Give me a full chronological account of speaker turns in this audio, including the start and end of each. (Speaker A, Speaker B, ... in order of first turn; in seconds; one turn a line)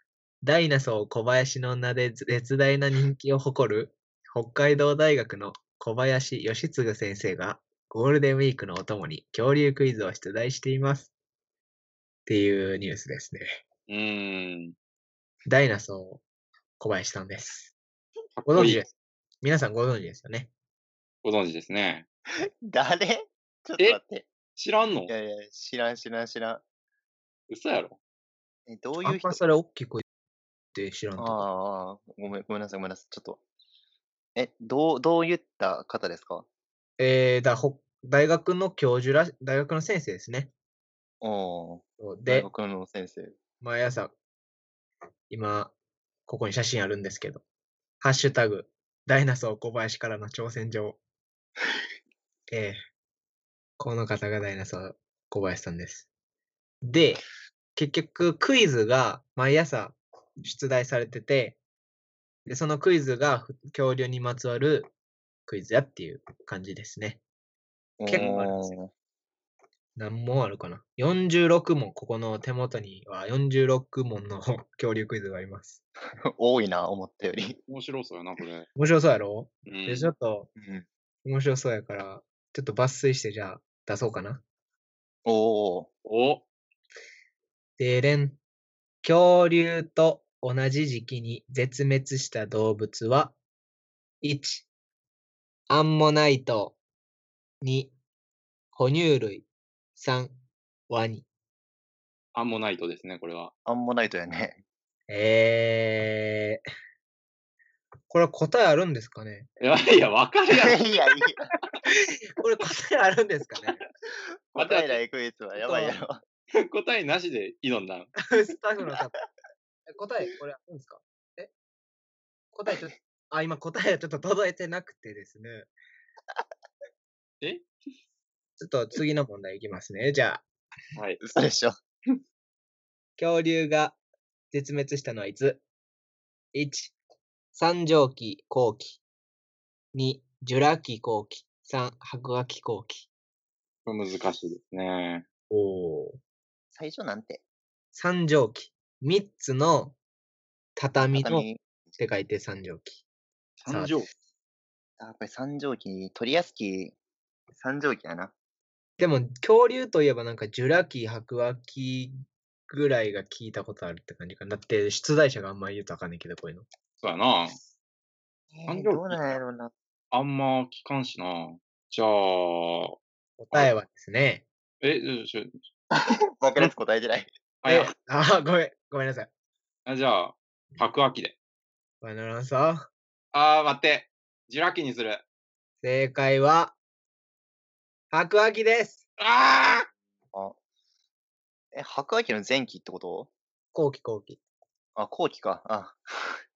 Speaker A: 0.4-11.1
Speaker A: 12.2-13.6
Speaker B: 13.9-14.7
Speaker A: 15.4-16.2
Speaker A: 16.8-17.7
Speaker B: 18.4-18.8
Speaker A: 18.5-18.9
Speaker A: 19.4-20.5
Speaker B: 21.2-22.1
Speaker C: 22.4-24.3
Speaker B: 24.6-25.1
Speaker C: 25.1-26.6
Speaker B: 27.5-28.0
Speaker C: 28.7-29.4
Speaker A: 29.0-30.0
Speaker A: 30.7-31.4
Speaker C: 31.2-33.4
Speaker C: 34.4-36.5
Speaker A: 37.0-40.5
Speaker C: 41.2-43.4
Speaker A: 42.0-42.5
Speaker A: 43.6-44.1
Speaker A: 45.3-45.7
Speaker A: 46.3-47.4
Speaker A: 48.0-51.0
Speaker A: 52.5-52.8
Speaker A: 53.8-56.1
Speaker A: 56.8-57.2
Speaker A: 57.8-61.6
Speaker A: 62.5-64.9
Speaker A: 65.5-67.2
Speaker C: 68.0-68.9
Speaker A: 68.1-68.7
Speaker A: 70.0-75.8
Speaker C: 76.2-77.6
Speaker B: 77.7-78.7
Speaker A: 78.8-80.5
Speaker B: 79.7-80.1
Speaker C: 80.5-80.9
Speaker A: 81.2-84.4
Speaker C: 85.2-85.9
Speaker B: 86.0-86.5
Speaker A: 87.8-88.4
Speaker A: 89.0-93.3
Speaker A: 94.2-94.7
Speaker A: 95.7-96.8
Speaker A: 97.6-97.9
Speaker A: 98.7-100.3
Speaker A: 100.9-101.2
Speaker B: 102.3-103.5
Speaker C: 103.7-104.6
Speaker A: 105.1-106.6
Speaker A: 108.1-109.5
Speaker B: 109.6-110.8
Speaker C: 110.5-111.5
Speaker A: 111.9-113.8
Speaker C: 114.5-116.2
Speaker B: 114.6-115.0
Speaker A: 115.5-116.0
Speaker B: 116.5-118.1
Speaker A: 118.2-119.1
Speaker A: 119.9-121.5
Speaker A: 122.5-125.7
Speaker B: 127.4-127.7
Speaker A: 128.6-130.4
Speaker C: 131.2-132.2
Speaker A: 133.2-134.0
Speaker A: 134.5-135.6
Speaker A: 136.5-136.9
Speaker A: 137.5-139.0
Speaker A: 139.9-143.1
Speaker B: 143.8-145.2
Speaker A: 145.5-146.2
Speaker C: 146.7-147.4
Speaker A: 147.9-150.0
Speaker A: 150.8-151.4
Speaker C: 151.0-151.6
Speaker A: 152.0-153.0
Speaker B: 153.6-154.1
Speaker A: 153.7-154.0
Speaker C: 155.0-156.9
Speaker C: 157.5-158.3
Speaker A: 159.0-166.6
Speaker B: 167.0-167.6
Speaker C: 168.5-169.7
Speaker B: 168.7-169.4
Speaker B: 170.1-172.9
Speaker A: 173.4-174.4
Speaker B: 174.8-175.6
Speaker C: 175.9-177.3
Speaker B: 177.6-177.9
Speaker A: 177.7-179.3
Speaker B: 179.8-181.3
Speaker A: 182.0-182.9
Speaker B: 183.3-185.2
Speaker A: 185.8-186.8
Speaker A: 188.1-189.0
Speaker B: 189.2-189.9
Speaker C: 191.7-193.3
Speaker A: 193.7-194.4
Speaker C: 194.9-196.4